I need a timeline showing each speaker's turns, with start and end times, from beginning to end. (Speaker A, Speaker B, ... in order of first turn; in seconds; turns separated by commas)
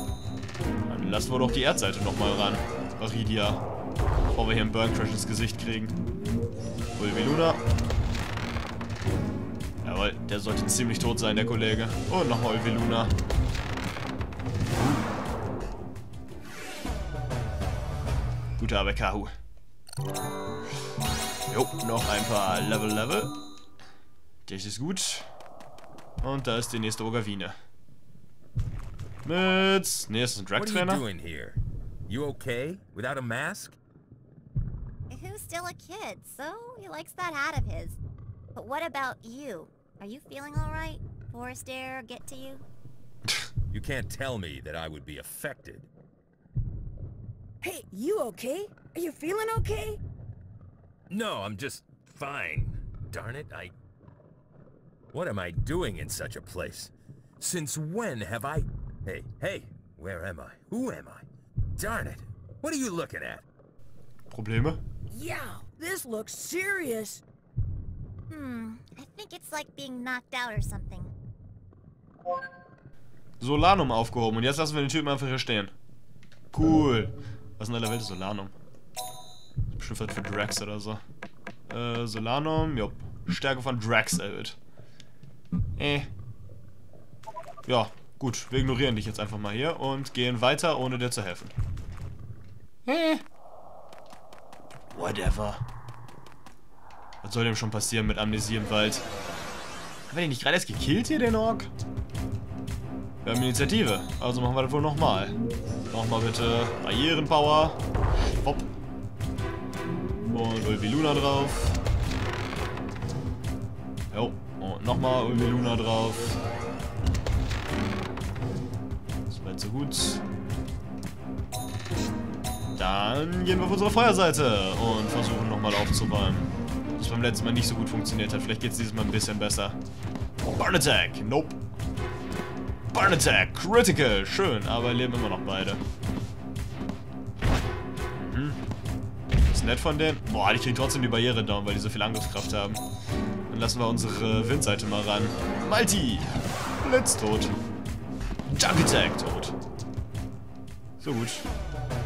Speaker A: 0.9-3.6, Speaker A: 4.3-6.0, Speaker A: 7.0-7.6, Speaker A: 9.8-13.1, Speaker A: 14.7-15.1, Speaker A: 18.6-19.4, Speaker A: 21.5-23.3, Speaker A: 24.5-25.3, Speaker A: 26.2-27.6, Speaker A: 29.2-31.0, Speaker B: 30.6-33.8, Speaker C: 35.1-38.0, Speaker C: 38.5-42.6, Speaker B: 43.7-45.9, Speaker D: 47.6-50.0, Speaker B: 51.1-53.7, Speaker B: 55.1-63.5, Speaker A: 64.3-64.8, Speaker D: 65.1-67.2, Speaker C: 68.3-71.1, Speaker A: 73.4-75.7, Speaker A: 76.5-78.5, Speaker A: 79.7-81.0, Speaker A: 81.7-84.6, Speaker A: 85.8-86.1, Speaker A: 87.7-91.5, Speaker A: 92.9-93.2, Speaker A: 94.9-95.6, Speaker A: 97.2-99.1, Speaker A: 100.1-101.7, Speaker A: 103.2-105.4, Speaker A: 105.9-108.7, Speaker A: 110.3-111.8, Speaker A: 114.1-116.4, Speaker A: 119.3-120.2, Speaker A: 122.8-129.8, Speaker A: 130.6-131.6, Speaker A: 132.9-135.8, Speaker A: 138.2-138.6, Speaker A: 139.5-142.8, Speaker A: 143.5-147.6, Speaker A: 148.5-149.6, Speaker A: 151.0-151.5